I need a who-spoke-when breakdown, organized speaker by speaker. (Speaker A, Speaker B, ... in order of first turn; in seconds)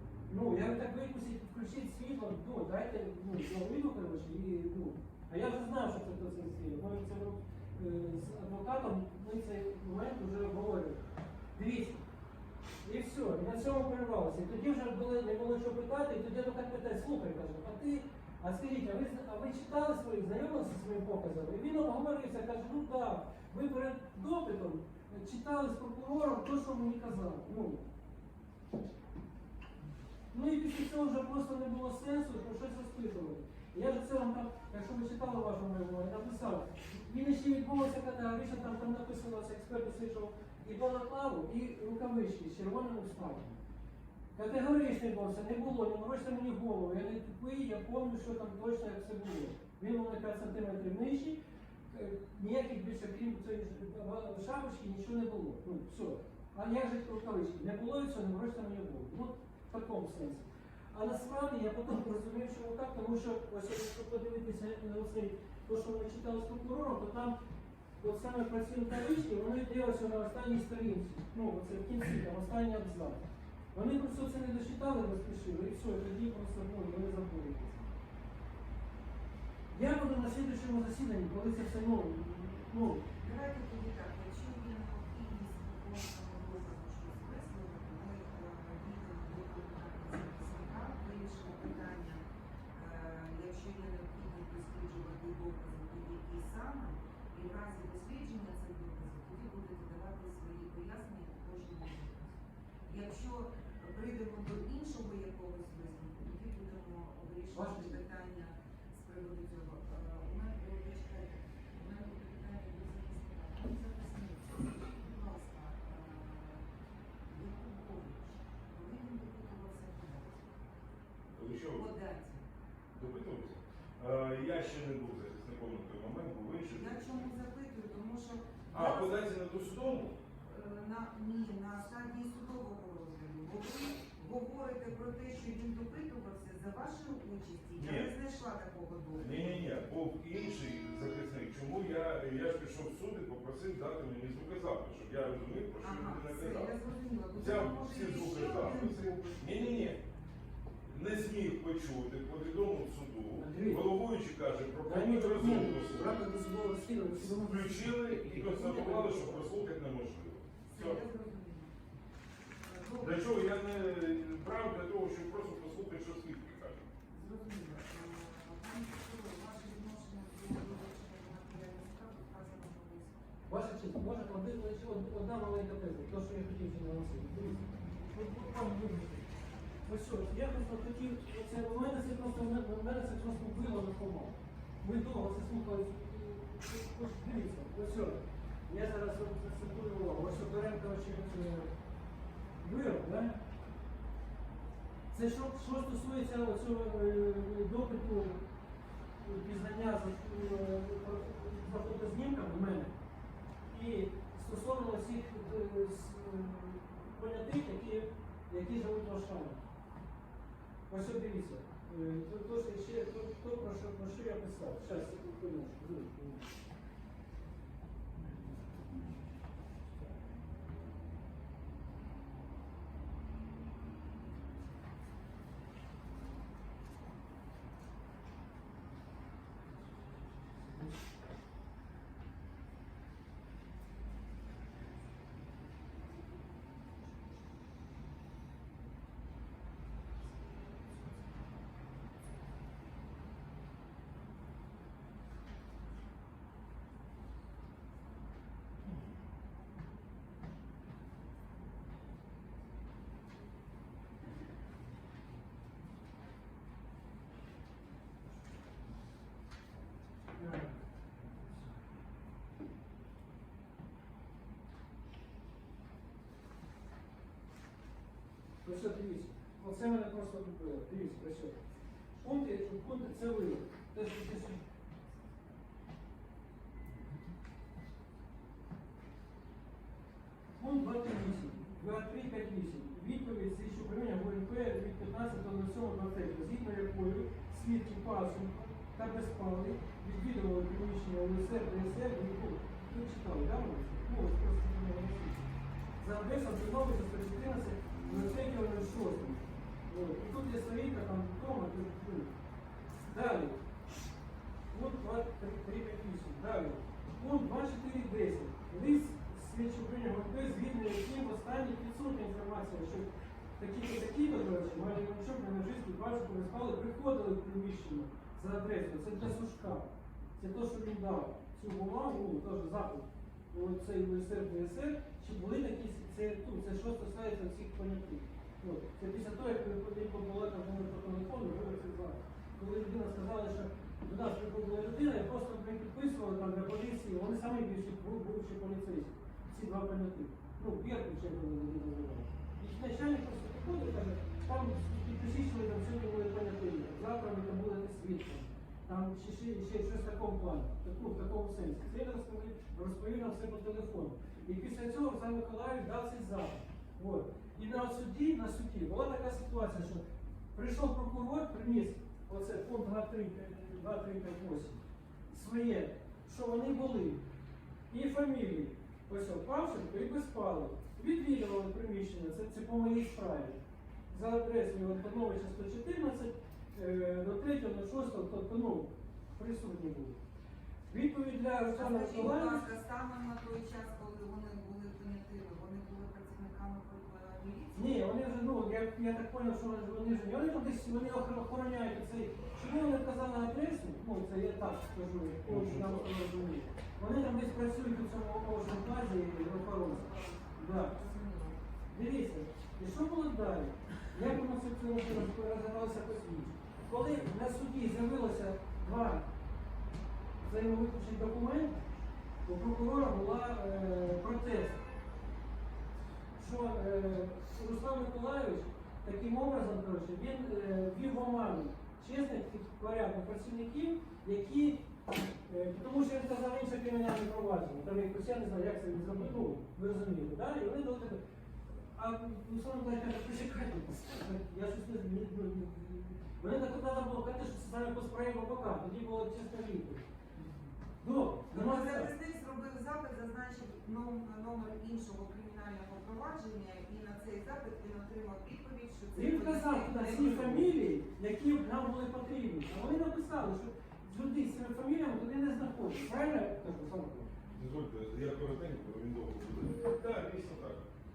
Speaker A: 0.3-11.0, 11.5-12.0, 12.8-27.8, 30.3-43.6, 44.3-51.4, 51.9-67.3, 68.0-73.2, 73.7-77.9, 79.7-83.0, 107.5-108.0, 153.4-153.9, 154.8-159.6, 173.5-179.3, 179.8-191.7, 192.6-193.4, 195.1-198.4, 199.2-202.9, 203.7-209.6, 210.9-216.5, 260.4-261.5, 268.6-271.6, 272.2-274.6, 280.6-295.4, 296.0-302.3, 303.1-303.6, 304.7-367.2, 367.9-373.6, 374.1-380.2, 380.9-382.6, 387.7-401.0, 401.9-409.2, 410.4-411.8, 412.4-414.8, 416.4-424.8, 425.4-440.0, 441.0-442.1, 449.1-457.3
Speaker B: 83.2-92.2, 92.7-116.7, 117.2-120.5, 121.7-122.4, 126.7-129.3, 130.4-139.7, 145.8-150.0, 160.7-161.7, 162.6-163.2, 167.1-173.2, 381.7-388.0, 399.7-401.6, 440.4-440.7, 441.5-450.7
Speaker C: 121.3-121.8, 122.9-127.1, 128.7-130.2, 137.8-138.1, 139.2-146.7, 147.3-150.0, 150.9-156.1, 157.3-161.0, 163.0-166.9, 395.4-396.2, 457.5-460.9